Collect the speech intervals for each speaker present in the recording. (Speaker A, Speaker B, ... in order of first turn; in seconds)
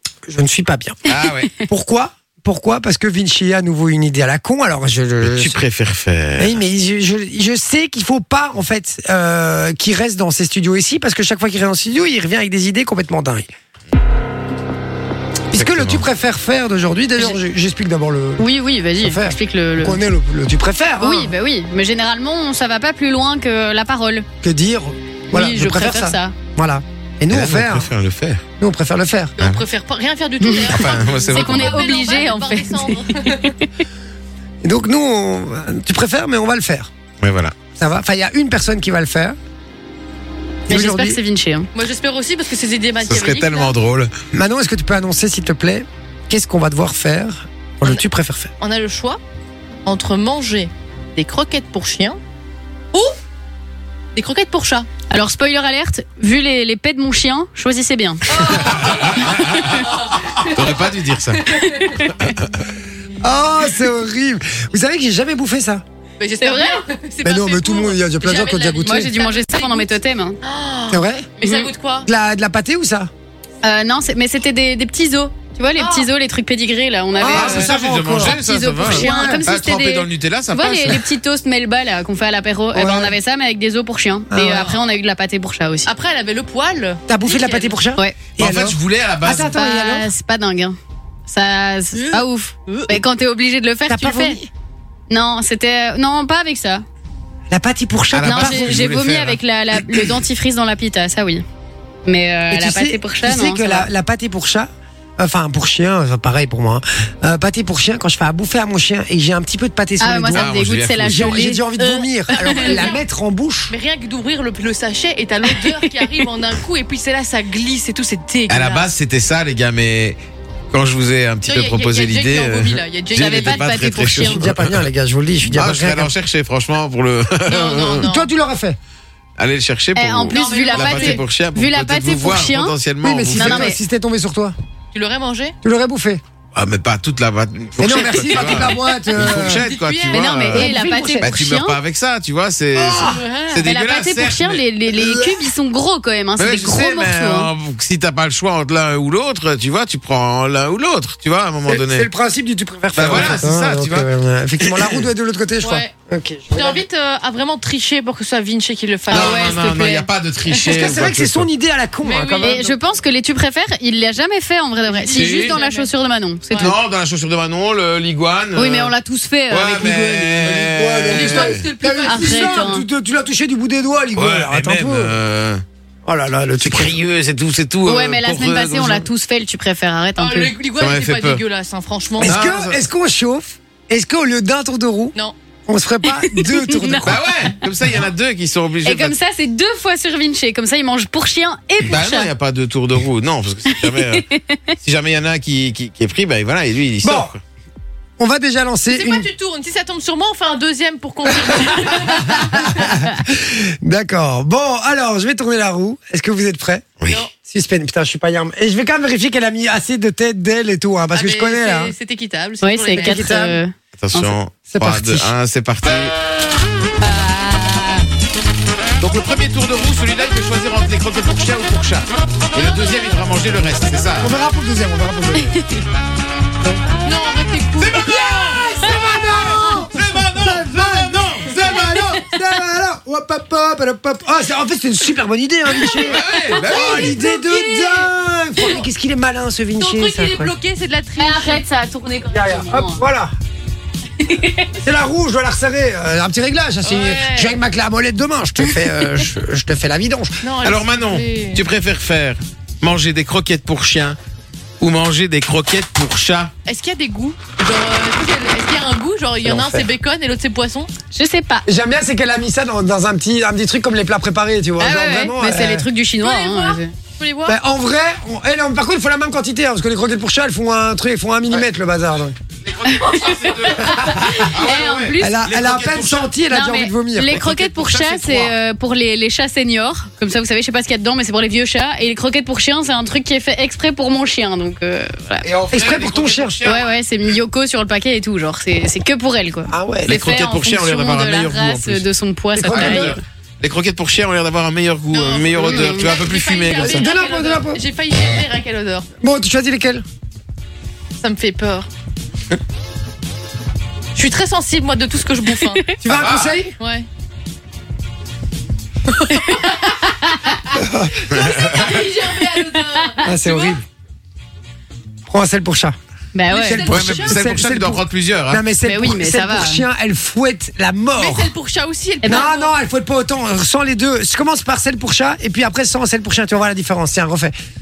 Speaker A: 0.3-1.0, 1.6-5.6, 6.4-13.5, 15.5-18.5, 19.0-21.3, 24.4-27.9, 28.6-29.3, 34.6-36.9, 37.8-39.4, 40.7-41.2, 44.3-48.5, 63.2-65.8, 67.2-69.1, 70.9-71.3, 72.0-73.1, 77.2-79.5, 82.7-83.2, 84.3-84.6, 87.1-90.1, 93.9-94.5, 97.5-98.8, 102.5-113.7, 124.1-126.1, 128.0-128.8, 133.0-134.5, 135.6-136.2, 137.8-139.7, 142.7-143.2, 145.0-145.3, 151.7-156.8, 160.7-162.6, 170.3-175.1, 176.0-177.0, 182.2-185.2, 185.7-187.2, 197.0-197.3, 198.2-199.3, 201.7-206.8, 207.4-211.9, 212.9-213.6, 214.7-215.3, 224.2-225.6, 228.0-240.5, 242.3-243.3, 244.8-250.4, 259.4-259.9, 261.6-265.9, 267.4-272.3, 275.2-277.4, 285.6-286.6, 289.7-290.3, 292.5-293.2, 296.7-297.8, 299.2-300.0, 306.0-306.8, 310.7-311.9, 313.2-313.8, 315.3-316.0, 316.6-321.5, 322.2-327.5
Speaker B: 1.1-1.5, 5.2-6.6, 15.5-16.1, 27.3-28.4, 29.4-29.6, 30.7-31.9, 37.2-37.5, 43.0-44.1, 58.5-61.4, 77.2-81.0, 88.4-89.5, 98.1-99.4, 110.3-111.4, 118.5-120.2, 120.7-124.9, 125.4-128.1, 129.4-133.7, 136.5-140.7, 141.2-144.6, 146.4-152.1, 152.9-154.1, 154.6-155.1, 159.1-161.5, 165.1-165.6, 166.5-168.9, 169.5-171.6, 174.1-175.6, 176.6-179.1, 180.8-181.4, 182.2-182.8, 187.0-189.2, 191.8-194.3, 194.8-197.4, 214.0-216.1, 219.0-224.3, 227.8-232.2, 236.0-237.2, 250.6-254.2, 254.8-256.5, 272.6-276.3, 277.3-278.5, 285.4-286.9, 290.1-292.1, 292.7-297.1, 306.1-306.6, 311.3-312.0, 316.8-318.6
Speaker C: 18.4-20.0, 21.0-24.2, 25.4-26.4, 30.4-30.8, 31.3-33.5, 40.7-41.7, 55.1-58.5, 59.2-59.8, 61.9-62.3, 66.4-66.8, 68.8-70.4, 71.4-71.7, 73.6-85.9, 89.5-94.4, 95.1-96.8, 98.2-101.4, 102.0-103.9, 110.0-111.6, 112.3-112.9, 123.2-124.4, 129.9-132.7, 133.3-133.8, 140.1-141.8, 143.6-147.5, 159.1-160.1, 162.4-166.7, 168.5-170.3, 172.0-172.8, 177.8-180.6, 186.2-187.1, 188.8-192.3, 193.8-194.6, 212.6-214.3, 217.0-218.0, 225.5-225.8, 241.2-243.0, 244.2-244.8, 261.1-261.6, 264.8-266.9, 272.8-275.4, 276.5-285.5, 286.6-293.2, 295.7-296.2, 305.6-305.9, 309.3-310.5, 312.8-313.2, 316.3-316.8, 318.8-319.8
Speaker D: 29.4-33.6, 41.7-43.7, 48.6-49.2, 49.8-52.2, 54.1-54.9, 58.3-59.2, 61.4-61.9, 66.2-72.1, 75.8-76.1, 84.5-84.8, 85.8-87.8, 91.9-93.0, 111.8-113.0, 113.7-118.9, 121.5-124.2, 127.5-128.3, 130.3-131.2, 134.9-135.6, 139.1-141.4, 142.9-143.7, 155.6-155.9, 156.5-159.8, 160.5-161.0, 162.0-162.8, 164.8-165.9, 166.5-166.7, 171.1-172.8, 180.2-182.4, 198.9-202.6, 207.1-207.3, 211.1-213.6, 227.0-228.1, 236.4-238.1, 239.8-241.6, 246.8-247.6, 250.4-251.6, 256.6-260.9, 266.2-267.6, 277.9-278.3, 295.1-299.1, 301.2-301.9, 304.1-305.9, 306.8-307.1, 309.3-313.8, 316.5-317.4, 321.2-322.7